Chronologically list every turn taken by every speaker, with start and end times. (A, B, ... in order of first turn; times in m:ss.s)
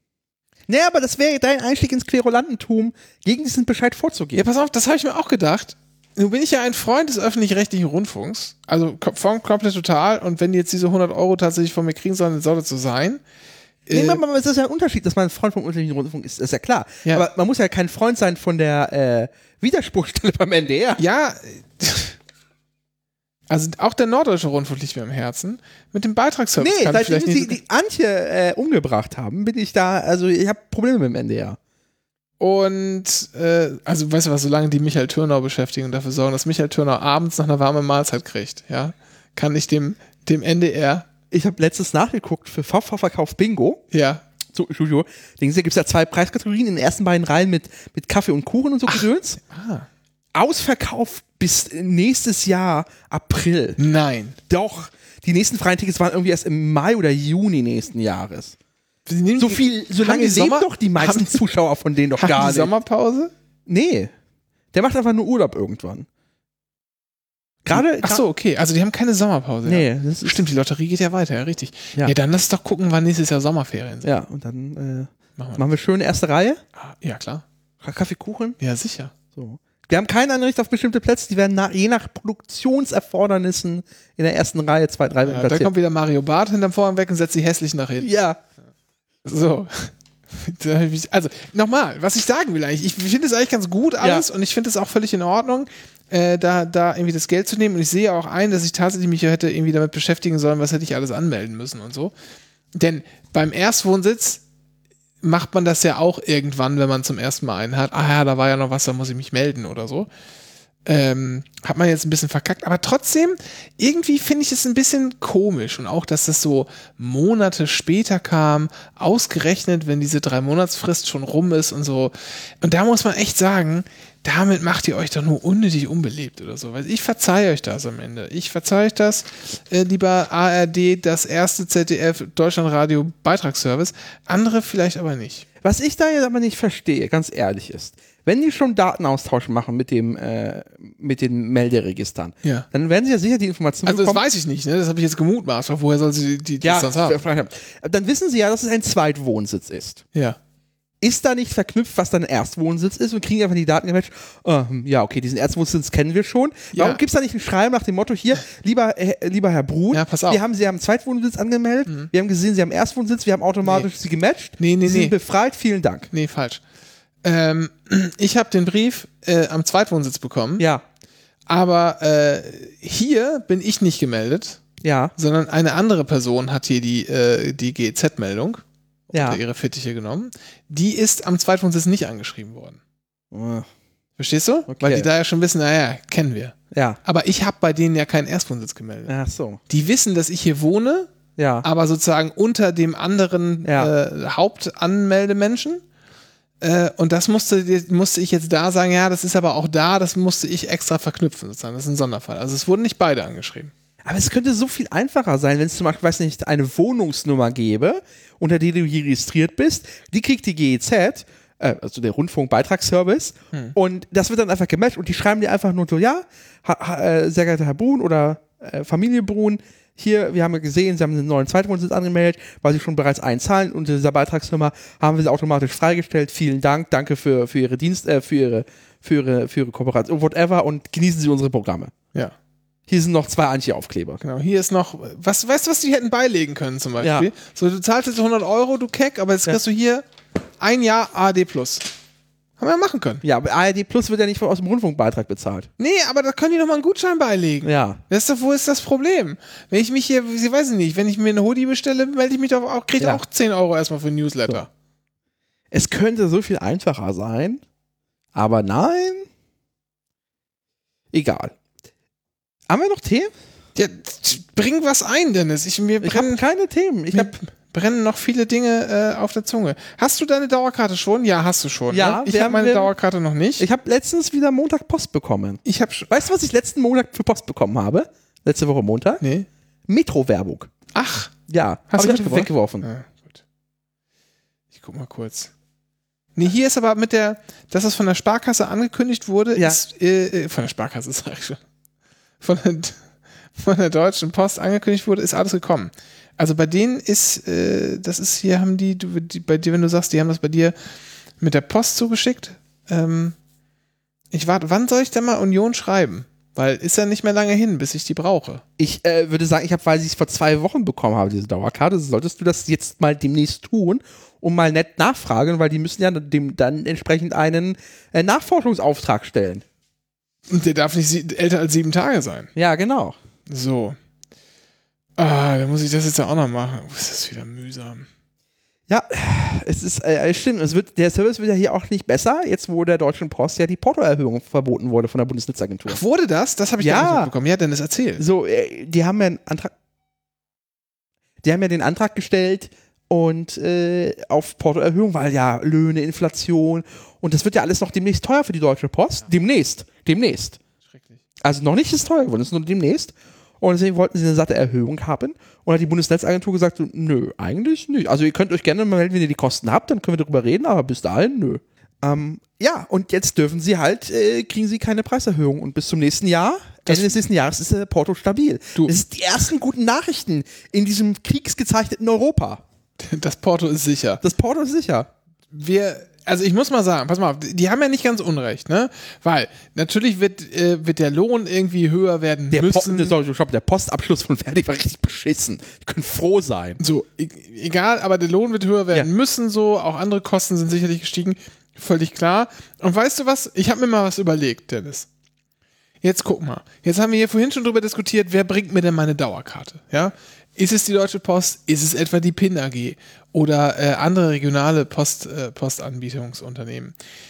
0:00.7-0:04.4 A
0:04.3-0:13.2 B
0:13.9-0:14.2 B
0:13.9-0:21.0 A
0:21.0-0:22.2 B
0:23.5-0:27.6 B
0:26.6-0:31.6 A
0:32.4-0:41.1 B
0:41.3-0:43.8 A
0:43.9-0:44.2 B
0:44.5-0:49.4 A
0:48.9-0:49.9 B
0:50.3-0:53.8 A
0:53.8-0:54.4 B
0:54.5-0:58.6 A
0:59.0-1:01.4 B
0:59.4-1:02.7 A
1:02.2-1:03.3 B
1:03.7-1:04.1 A
1:04.7-1:06.1 A
1:07.6-1:08.2 A
1:07.7-1:14.1 B
1:09.6-1:10.5 A
1:14.0-1:16.6 A
1:15.4-1:15.6 B
1:16.8-1:17.4 B
1:17.8-1:18.6 A
1:18.6-1:19.1 B
1:19.3-1:25.7 A
1:25.2-1:28.1 B
1:28.0-1:28.4 A
1:29.2-1:42.1 B
1:34.0-1:34.2 A
1:42.7-1:44.4 B
1:45.2-1:50.1 B
1:50.8-2:15.4 B
2:15.6-2:24.2 A
2:23.8-2:27.2 B
2:26.6-2:30.0 A
2:31.0-2:46.1 A
2:36.7-2:37.0 B
2:39.9-2:40.4 B
2:44.6-2:45.1 B
2:46.1-2:46.6 B
2:47.2-2:50.6 B
2:51.5-2:54.6 B
2:54.8-2:55.1 A
2:55.2-3:02.8 B
2:59.1-2:59.4 A
3:03.3-3:03.7 A
3:04.2-3:09.1 B
3:04.7-3:05.1 A
3:06.7-3:07.0 A
3:09.1-3:09.6 A
3:09.7-3:11.1 B
3:11.4-3:11.6 A
3:11.6-3:15.8 B
3:13.6-3:13.9 A
3:16.6-3:23.7 B
3:24.0-3:51.9 A
3:52.9-3:54.2 A
3:54.2-4:00.0 B
3:57.0-3:57.3 A
4:00.6-4:01.8 B
4:02.6-4:03.2 B
4:03.2-4:05.7 A
4:05.8-4:14.7 B
4:07.6-4:08.0 A
4:15.7-4:17.6 A
4:18.3-4:19.3 A
4:21.1-4:21.5 A
4:22.7-4:23.3 A
4:23.8-4:26.4 B
4:26.0-4:27.3 A
4:27.1-4:33.6 B
4:31.9-4:32.9 A
4:33.6-4:39.2 A
4:35.6-4:36.1 B
4:39.2-4:39.5 B
4:39.9-4:40.7 A
4:40.9-4:41.3 B
4:41.5-4:42.8 A
4:41.9-4:43.4 B
4:44.7-4:45.5 B
4:46.4-4:51.6 B
4:52.4-4:53.0 B
4:53.6-5:00.7 B
5:01.4-5:03.3 B
5:04.3-5:08.6 B
5:08.8-5:19.6 A
5:20.5-5:22.5 B
5:22.5-5:23.2 A
5:23.5-5:24.0 B
5:25.2-5:28.1 B
5:28.9-5:36.0 A
5:35.9-5:38.2 B
5:36.8-5:37.3 A
5:38.2-5:39.7 A
5:41.4-5:50.6 A
5:50.9-5:51.2 B
5:51.4-6:12.6 A
6:06.8-6:07.2 B
6:13.0-6:14.2 B
6:14.2-6:15.1 A
6:15.5-6:23.1 B
6:22.5-6:26.8 A
6:26.8-6:35.1 B
6:36.0-6:46.9 B